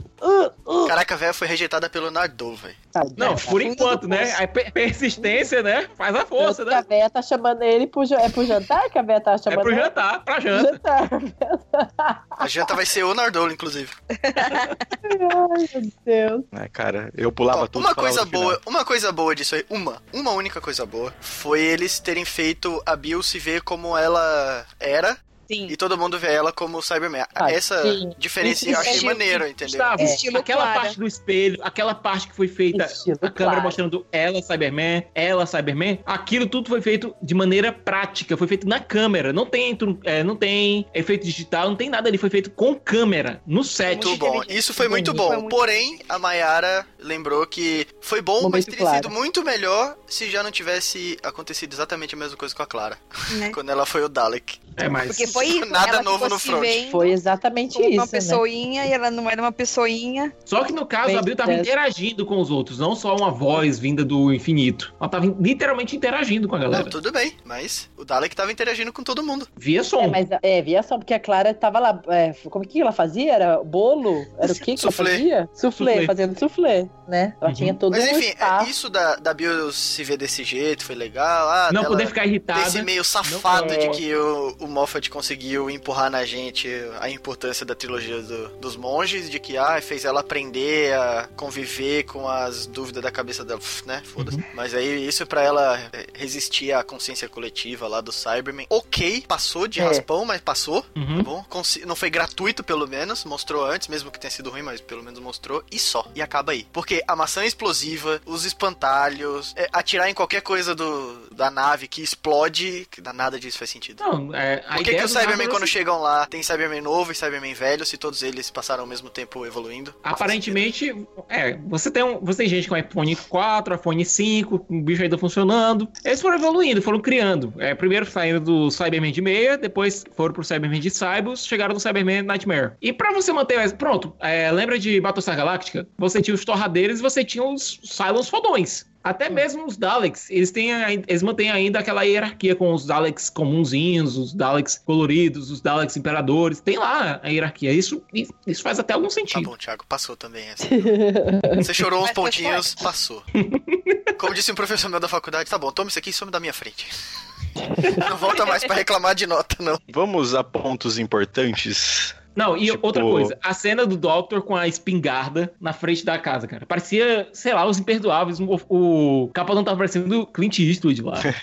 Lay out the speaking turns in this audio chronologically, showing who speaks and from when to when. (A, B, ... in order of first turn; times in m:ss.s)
0:00.2-0:00.9 A
0:00.8-0:02.8 B
0:02.9-0:03.6 A
0:03.2-0:06.8 C
0:03.5-0:04.4 D
0:06.4-0:09.9 A
0:09.5-0:10.8 C
0:10.5-0:12.3 A
0:12.4-0:14.0 B
0:14.2-0:14.8 D
0:15.0-0:16.5 A
0:16.5-0:18.6 E
0:17.5-0:30.0 B
0:25.5-0:25.7 D
0:27.4-0:29.1 A
0:28.7-0:29.3 D
0:29.4-0:44.2 C
0:30.0-0:31.0 D
0:32.7-0:33.8 A
0:43.8-0:46.0 D
0:43.9-0:54.6 B
0:44.9-0:45.2 A
0:48.4-0:49.1 A
0:53.3-0:53.6 D
0:54.8-0:55.4 C
0:55.0-0:57.2 D
0:55.4-0:56.8 B
0:56.9-0:58.4 A
0:57.7-1:00.3 D
1:00.5-1:07.0 C
1:01.0-1:01.7 A
1:06.7-1:09.5 B
1:09.6-1:10.2 C
1:10.0-1:18.7 A
1:14.7-1:15.2 B
1:15.8-1:16.1 C
1:17.4-1:17.8 C
1:17.9-1:54.0 B
1:21.7-1:24.0 C
1:23.5-1:24.0 A
1:34.2-1:34.4 C
1:39.8-1:40.0 A
1:41.0-1:41.3 C
1:54.0-1:55.7 C
1:54.7-2:00.6 B
2:00.0-2:29.5 C
2:29.3-2:30.8 B
2:30.6-2:31.6 A
2:31.6-2:33.2 B
2:32.0-2:32.7 D
2:33.4-2:34.1 C
2:34.2-2:36.9 B
2:37.9-2:39.8 B
2:38.4-2:38.7 D
2:39.9-2:43.3 E
2:42.4-2:51.3 C